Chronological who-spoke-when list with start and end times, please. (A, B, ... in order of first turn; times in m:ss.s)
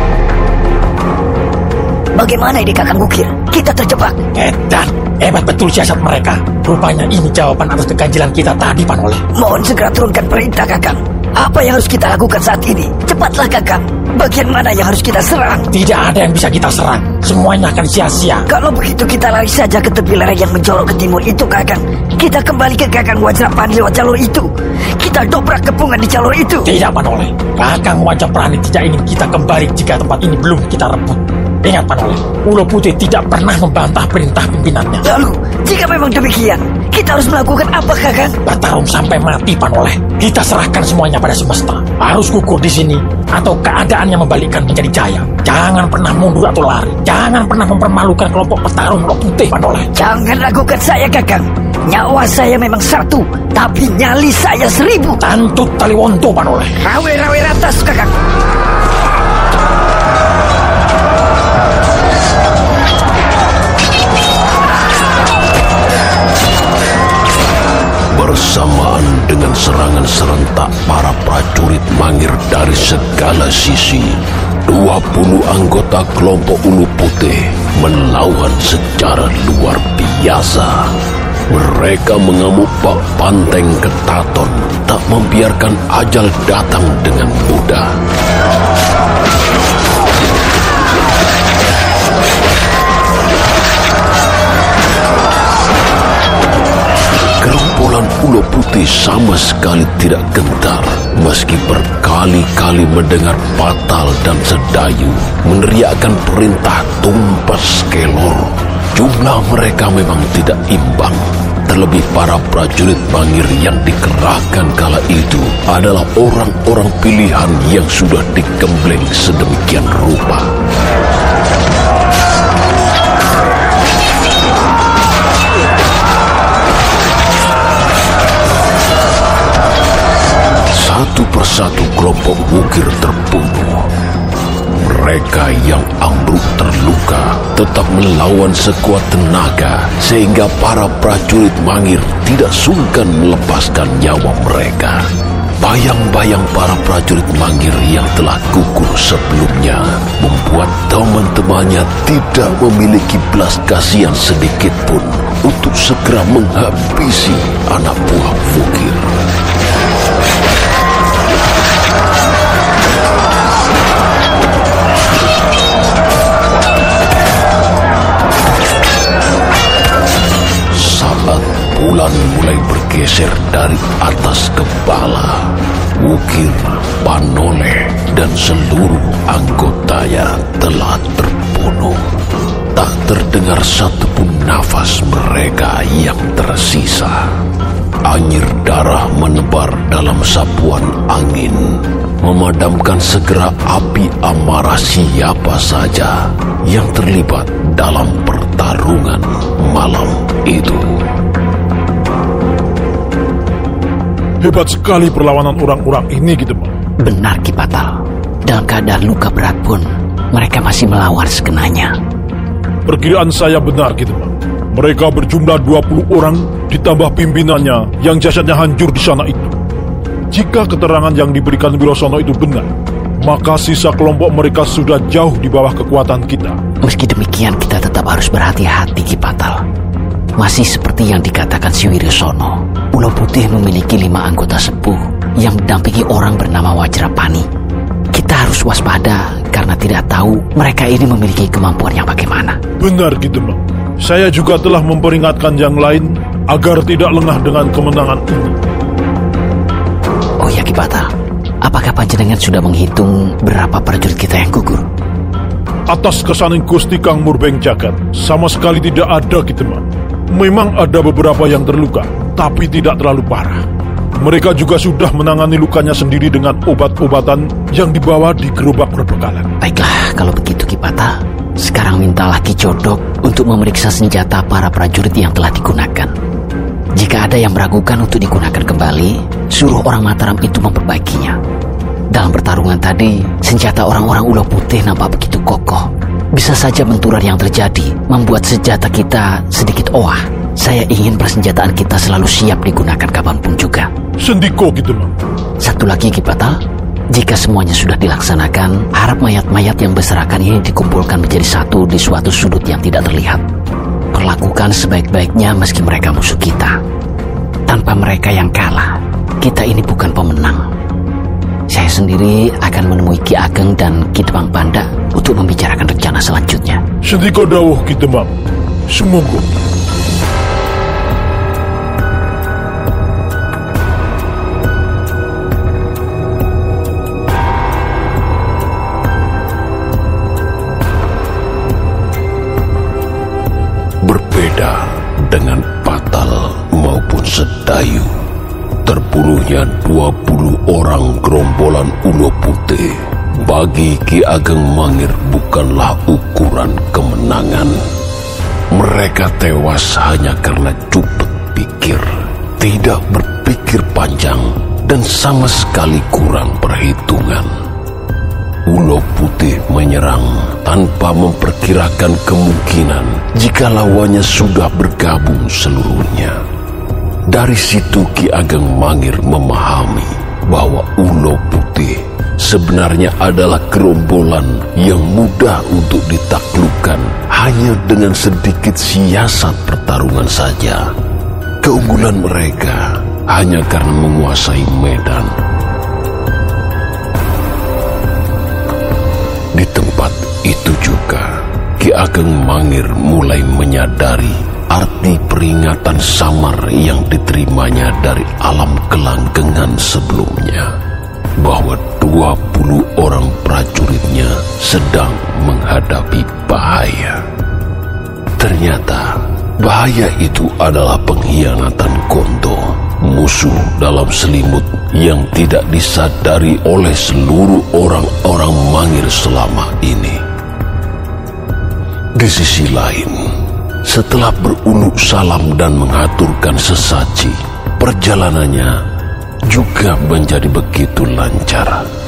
0:02.1-0:04.2 A
0:04.3-0:09.2 B
0:09.4-0:15.6 A
0:15.7-0:18.4 B
0:18.5-0:26.7 A
0:26.6-0:35.0 B
0:35.0-0:38.3 A
0:38.4-0:49.9 B
0:49.9-0:55.2 A
0:55.2-0:56.7 B
0:56.8-0:58.1 A
1:08.1-1:20.9 C
1:21.5-1:27.9 C
1:37.4-2:00.5 C
2:10.7-2:13.9 C
2:14.7-2:25.0 C
2:25.6-2:39.1 C
2:50.7-3:02.0 C
3:02.7-3:07.2 C
3:08.0-3:21.0 C
3:24.4-3:26.7 D
3:27.0-3:32.0 E
3:32.8-3:39.5 D
3:40.3-3:46.6 D
3:46.8-3:49.6 E
3:50.4-3:57.5 E
3:58.1-4:02.6 E
4:02.8-4:08.6 D
4:10.4-4:11.1 E
4:11.6-4:14.8 E
4:15.9-4:23.6 D
4:24.2-4:29.5 D
4:29.6-4:36.1 E
4:37.0-4:41.4 E
4:42.1-4:53.9 E
4:54.2-4:55.1 D
4:55.6-4:56.6 E
4:57.1-5:03.4 E
5:04.1-5:06.8 E
5:07.7-5:10.6 E
5:11.7-5:16.8 E
5:17.0-5:18.3 D
5:18.9-5:19.5 D
5:34.0-5:38.1 C
5:38.8-5:47.8 C
5:48.7-5:57.5 C
5:58.6-6:06.4 C
6:07.3-6:20.8 C
6:21.6-6:25.3 C
6:29.5-6:40.7 C
6:41.4-6:47.2 C
6:48.4-7:00.2 C
7:02.2-7:03.3 C
7:03.8-7:08.7 C
7:09.5-7:11.8 C